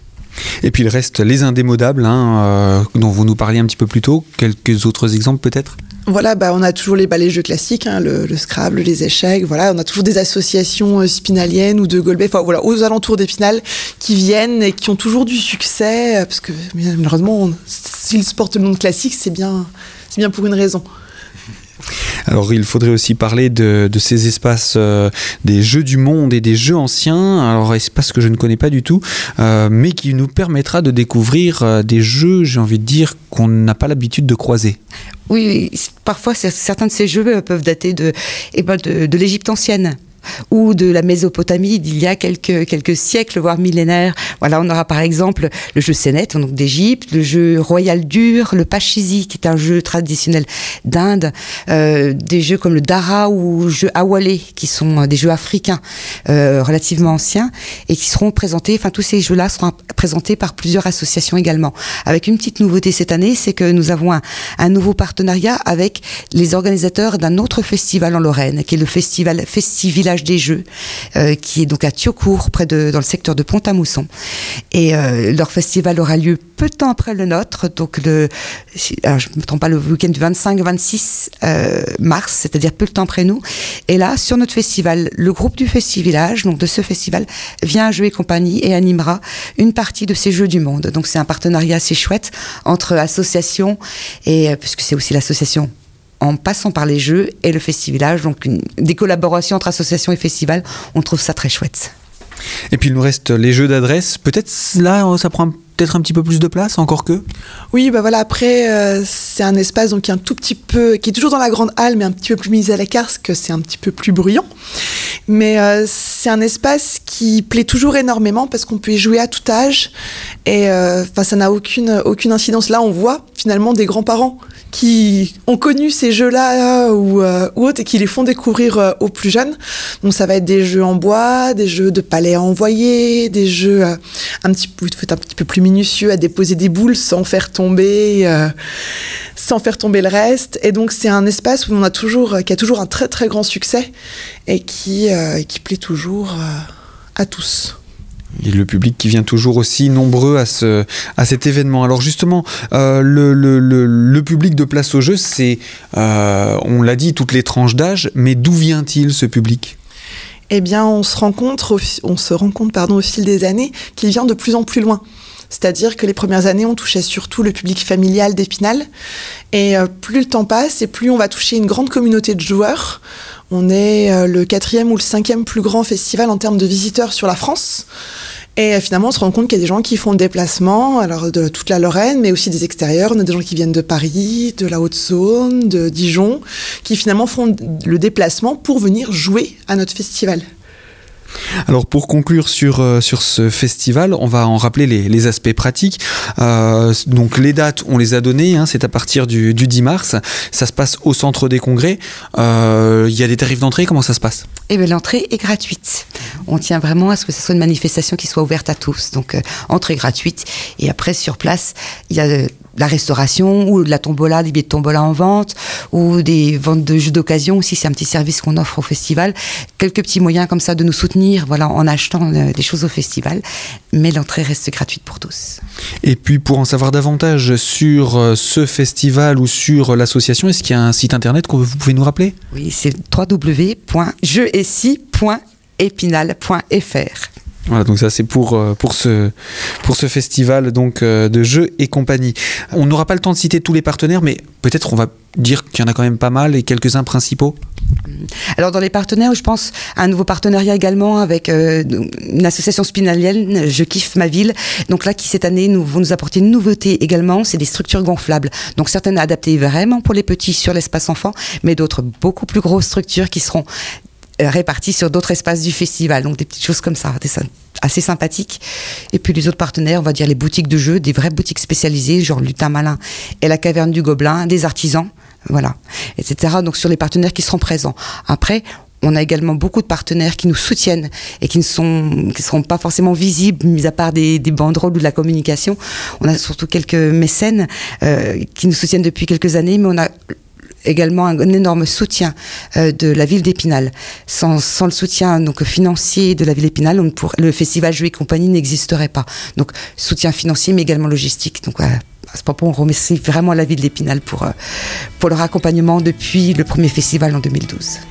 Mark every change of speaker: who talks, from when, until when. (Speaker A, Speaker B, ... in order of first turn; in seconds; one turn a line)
Speaker A: 0.6-5.8
Speaker B: 6.1-20.8
Speaker A: 22.3-34.8
Speaker C: 35.3-40.0
Speaker C: 40.5-74.1
Speaker C: 74.7-101.9
Speaker A: 102.7-107.2
Speaker B: 107.7-114.5
Speaker B: 115.3-119.9
Speaker B: 120.5-138.5
Speaker B: 139.4-143.9
Speaker B: 144.5-147.8
Speaker A: 148.4-159.7
Speaker B: 160.5-168.9
Speaker B: 169.5-177.8
Speaker B: 178.6-190.4
Speaker A: 191.7-204.4
Speaker C: 204.7-225.6
Speaker A: 226.0-232.3
Speaker C: 232.5-237.3
Speaker A: 237.7-247.6
Speaker C: 248.1-263.6
Speaker C: 264.4-290.1
Speaker C: 290.8-304.5
Speaker C: 305.2-308.0